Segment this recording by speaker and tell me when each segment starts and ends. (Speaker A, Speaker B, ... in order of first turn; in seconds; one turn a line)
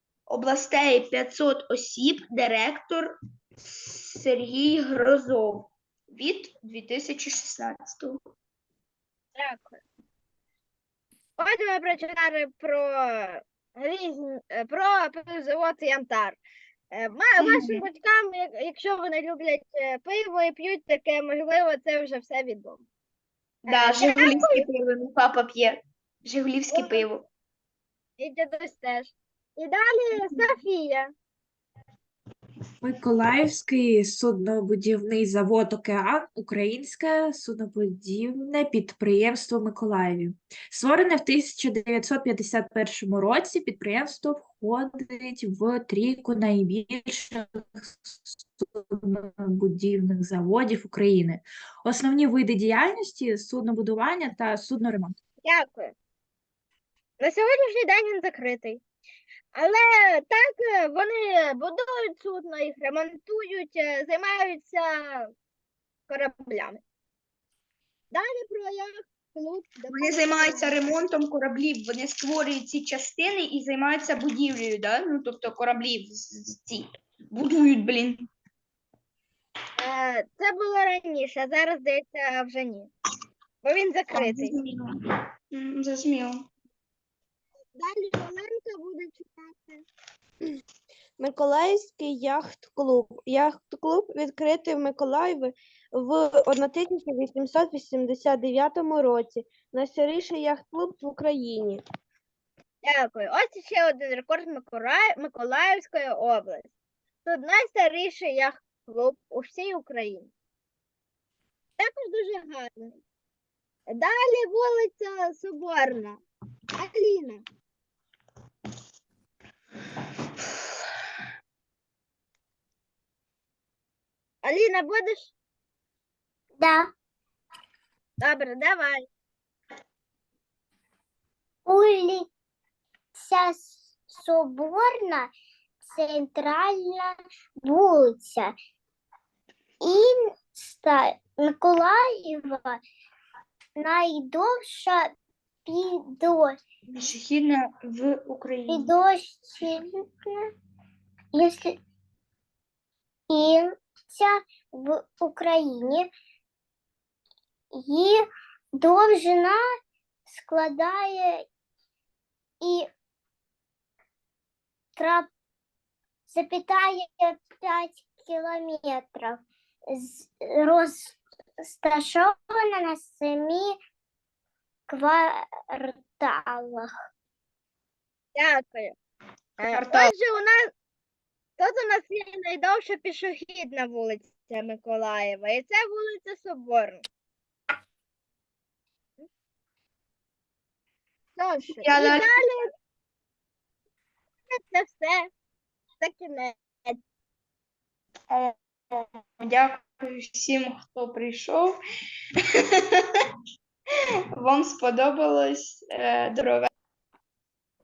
Speaker A: 0.3-8.2
Speaker B: 9.4-9.8
Speaker B: 11.4-16.4
Speaker B: 16.9-22.8
Speaker A: 17.4-17.8
Speaker A: 23.6-27.2
Speaker B: 23.7-24.6
Speaker B: 26.7-27.1
Speaker B: 28.2-31.1
Speaker C: 32.8-55.1
Speaker B: 55.4-55.9
Speaker B: 57.2-58.8
Speaker B: 59.5-65.3
Speaker B: 66.1-66.8
Speaker B: 68.1-70.7
Speaker A: 69.9-78.2
Speaker B: 79.8-82.9
Speaker B: 83.6-84.5
Speaker A: 84.1-84.9
Speaker A: 85.5-86.4
Speaker B: 87.8-89.8
Speaker D: 91.2-101.8
Speaker B: 102.8-106.7
Speaker B: 107.2-110.3
Speaker B: 111.8-113.0
Speaker B: 113.9-116.2
Speaker B: 116.8-117.4
Speaker B: 124.4-125.3
Speaker E: 126.6-126.9
Speaker B: 128.2-129.1
Speaker E: 131.7-132.3
Speaker E: 133.2-135.3
Speaker E: 135.9-137.1
Speaker E: 137.6-138.5
Speaker E: 139.8-142.8
Speaker E: 143.8-145.1
Speaker E: 145.7-146.6
Speaker A: 146.9-148.9
Speaker E: 148.7-150.4
Speaker E: 151.3-151.8
Speaker E: 153.3-156.1
Speaker E: 157.8-158.2
Speaker E: 158.8-159.6
Speaker E: 160.3-161.4
Speaker E: 162.6-162.9
Speaker E: 165.0-165.3
Speaker E: 166.3-169.4
Speaker E: 169.9-173.8
Speaker E: 174.9-176.9
Speaker B: 178.3-178.9
Speaker B: 179.6-180.7
Speaker A: 179.7-180.1
Speaker B: 181.6-187.0
Speaker B: 191.4-192.7
Speaker A: 191.8-192.2
Speaker B: 194.5-195.3
Speaker B: 196.0-197.0
Speaker A: 198.3-201.7
Speaker A: 204.4-206.7